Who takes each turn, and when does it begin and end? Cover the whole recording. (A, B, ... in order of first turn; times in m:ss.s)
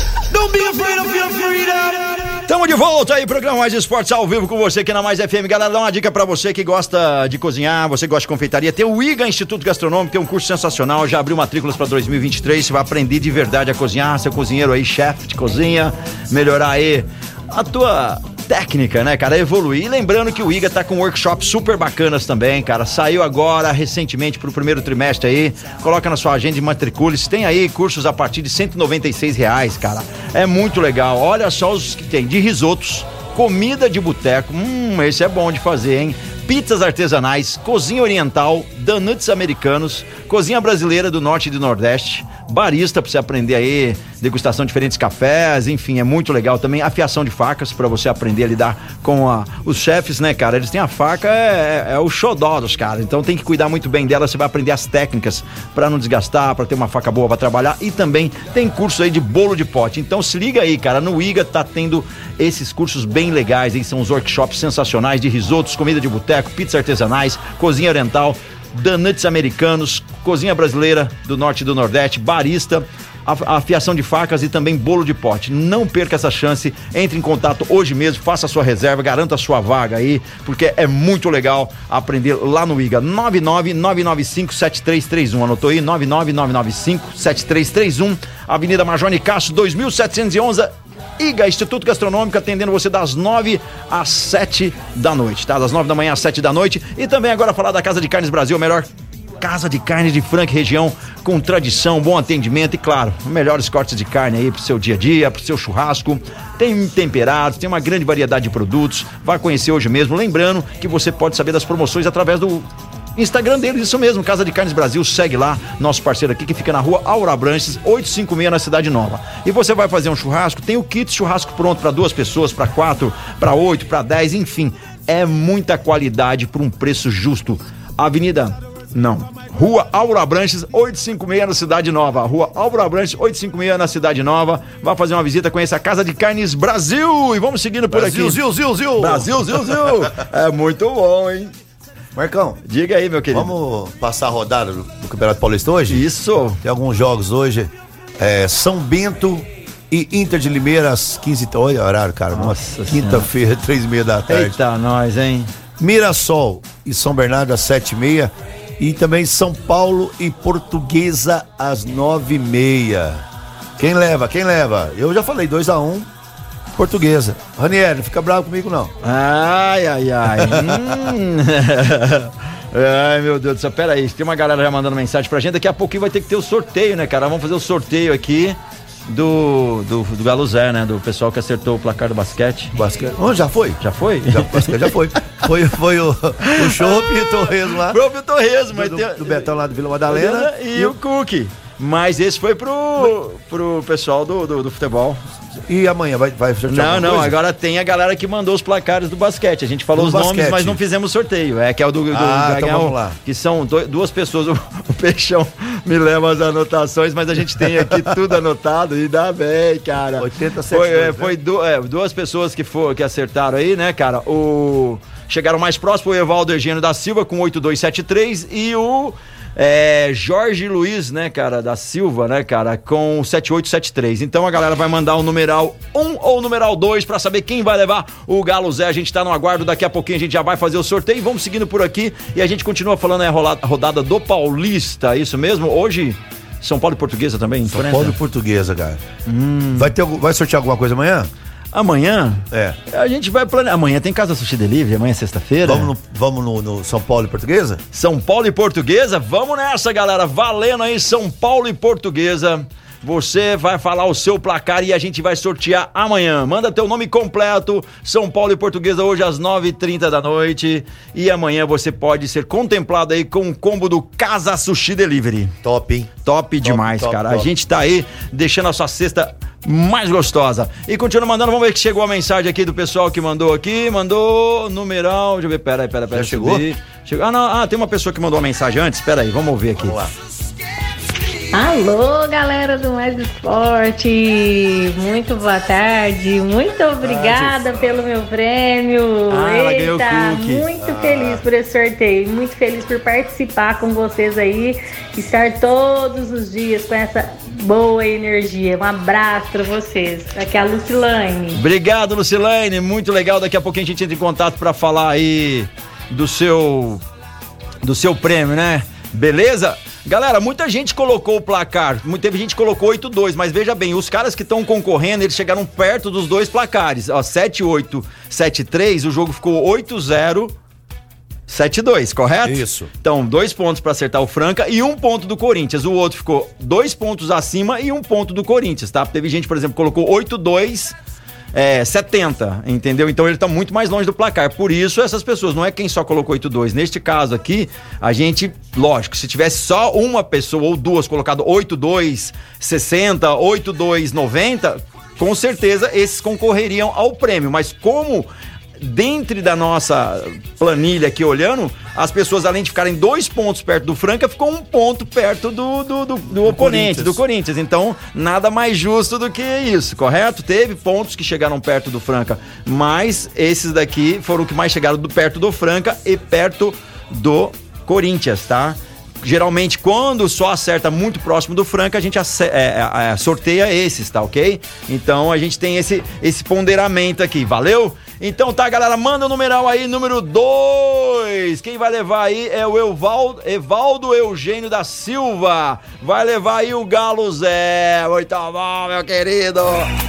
0:00.3-0:02.2 A
0:02.4-1:38.9 B
1:39.4-2:18.4 B
2:17.9-2:20.1 A
2:19.0-2:21.5 B
2:22.2-2:22.6 A
2:22.7-2:23.5 B
2:23.3-2:26.0 A
2:25.9-2:26.6 B
2:26.6-2:34.6 A
2:32.3-2:33.3 B
2:34.3-2:35.5 B
2:35.8-2:43.2 A
2:43.8-2:46.1 A
2:46.8-2:48.9 A
2:49.0-2:58.6 B
2:50.4-2:51.0 A
2:59.1-3:02.7 B
3:02.7-3:08.0 A
3:03.8-3:04.9 B
3:06.4-3:09.5 B
3:08.7-3:11.0 A
3:10.1-3:15.2 B
3:15.7-3:17.4 A
3:16.7-3:58.2 B
3:20.0-3:20.8 A
3:22.1-3:23.2 A
3:30.2-3:31.4 A
3:57.7-3:59.0 A
3:59.3-3:59.9 B
3:59.8-4:01.3 A
4:01.7-4:05.9 B
4:02.5-4:02.8 A
4:05.6-4:07.8 A
4:07.9-4:25.5 B
4:25.6-4:26.1 A
4:26.2-4:40.0 B
4:26.6-4:27.5 A
4:36.1-4:36.6 A
4:39.8-4:40.1 A
4:41.5-5:01.6 C
4:47.0-4:47.6 B
4:49.3-4:50.7 B
4:50.8-4:51.4 A
5:01.5-5:07.0 B
5:07.8-5:20.6 B
5:21.5-5:31.0 B
5:22.4-5:22.9 A
5:31.5-6:29.9 B
5:56.4-5:57.2 A